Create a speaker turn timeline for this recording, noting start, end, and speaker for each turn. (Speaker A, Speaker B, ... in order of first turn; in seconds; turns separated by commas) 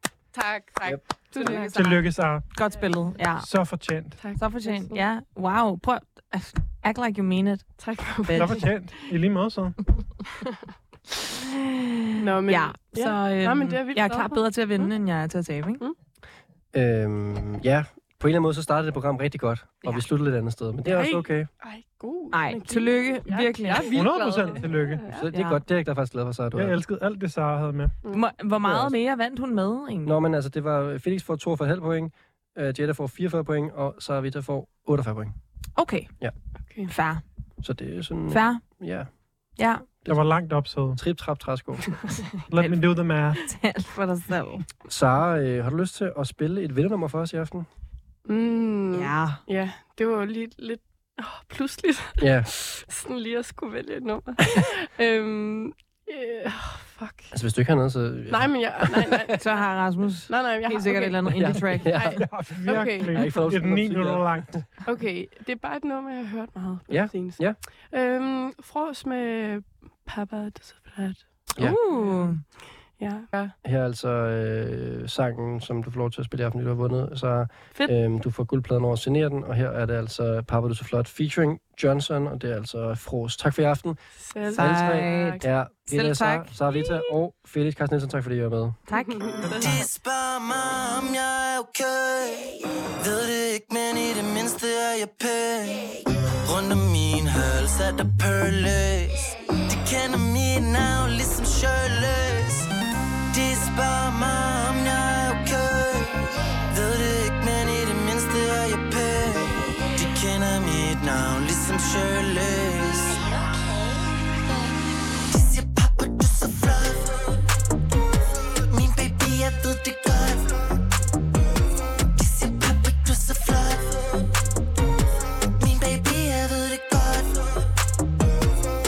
Speaker A: 0.3-2.0, Speaker B: 1.4-3.5, Speaker C: 1.7-2.5, Speaker C: 3.4-4.2, Speaker A: 4.2-5.0, Speaker B: 4.4-8.6, Speaker A: 7.8-8.6, Speaker C: 8.3-9.8, Speaker B: 11.4-11.9, Speaker A: 12.2-14.9, Speaker B: 12.4-15.8, Speaker D: 16.7-21.5, Speaker A: 20.9-25.2, Speaker B: 22.3-23.9, Speaker C: 23.9-25.1, Speaker D: 25.1-26.8, Speaker B: 25.3-25.6, Speaker C: 26.5-27.9, Speaker B: 28.1-30.1, Speaker D: 28.6-28.9, Speaker D: 30.0-35.3, Speaker B: 35.8-36.1, Speaker A: 36.6-36.9, Speaker B: 36.9-37.2, Speaker D: 37.6-39.1, Speaker B: 38.3-38.6, Speaker B: 39.6-39.9, Speaker C: 40.1-41.0, Speaker D: 40.9-42.1, Speaker C: 42.5-43.4, Speaker B: 42.5-44.6, Speaker D: 44.9-47.7, Speaker A: 48.2-57.3, Speaker B: 48.9-49.4, Speaker D: 52.2-52.5, Speaker D: 57.3-59.3, Speaker A: 58.3-59.6, Speaker B: 59.4-62.2, Speaker A: 60.3-63.3, Speaker D: 61.3-64.6, Speaker C: 62.2-64.6, Speaker A: 64.8-71.2, Speaker D: 66.9-67.6, Speaker B: 71.6-72.4, Speaker A: 71.9-73.5, Speaker D: 73.6-84.0, Speaker A: 84.2-85.5, Speaker B: 84.5-87.1, Speaker D: 84.5-88.8, Speaker B: 88.9-89.2, Speaker A: 88.9-89.8, Speaker C: 89.4-89.8, Speaker E: 89.6-102.7, Speaker E: 103.3-113.2, Speaker E: 115.3-117.2, Speaker E: 118.7-120.5, Speaker E: 122.1-124.0, Speaker E: 125.6-127.6